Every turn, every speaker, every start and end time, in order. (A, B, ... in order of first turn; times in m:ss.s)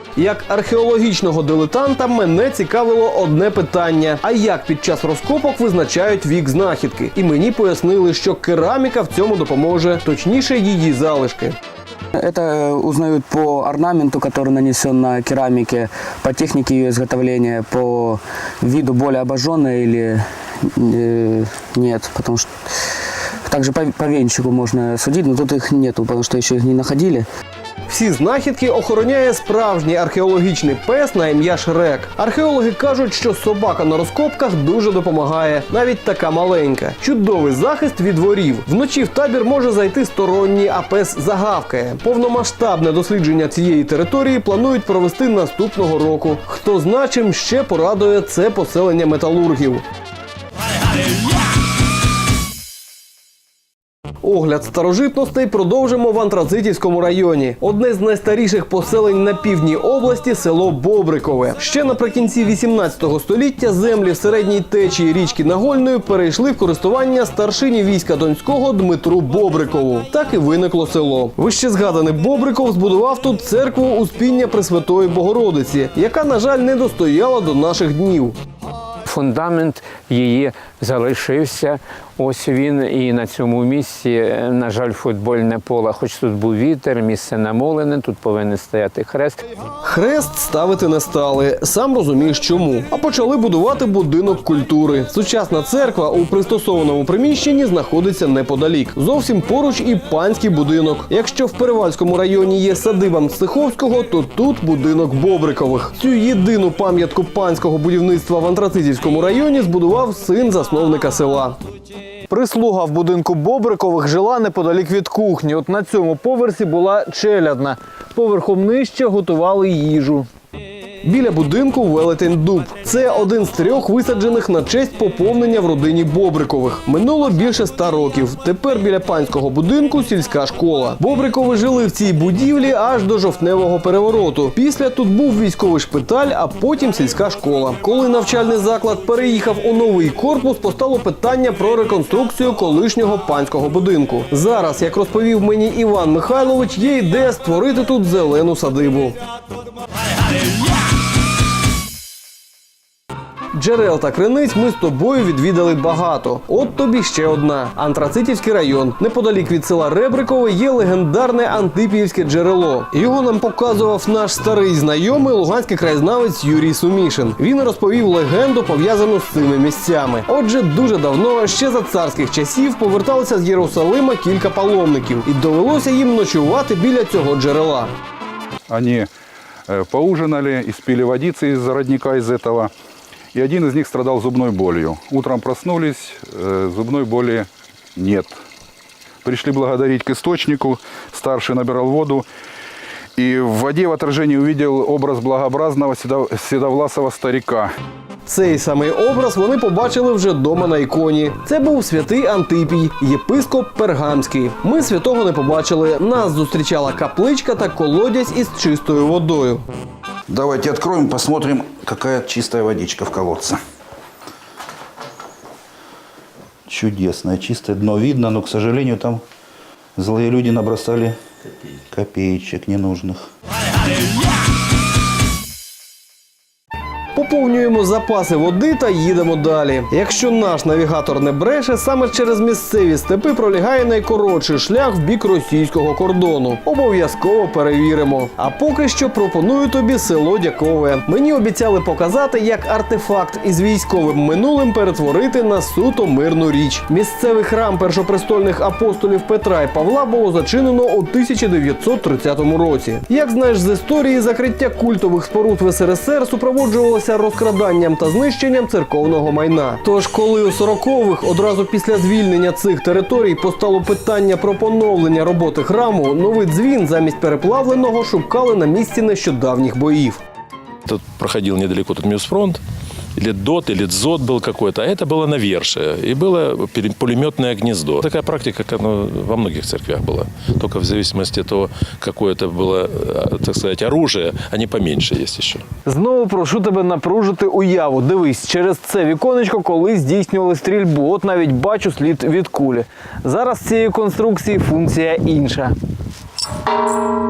0:00.2-0:11.6 A
0:12.1-0:22.5 B
0:23.5-0:27.3 B
0:27.9-0:49.8 A
0:54.2-1:18.4 A
1:19.0-1:29.4 C
1:29.8-1:51.6 A
1:52.3-2:00.3 A
2:01.0-2:29.2 A
2:33.5-2:57.9 A
2:58.7-2:59.1 D
2:59.7-3:02.7 D
3:03.3-3:08.3 D
3:09.2-3:12.3 D
3:13.2-3:17.7 D
3:18.2-3:29.6 A
3:30.3-3:33.6 E
3:36.7-3:39.2 E
3:40.0-3:41.2 E
3:41.9-3:43.3 E
3:47.1-4:30.2 A
4:30.9-4:32.6 F
4:33.2-4:45.6 F
4:45.8-4:55.7 A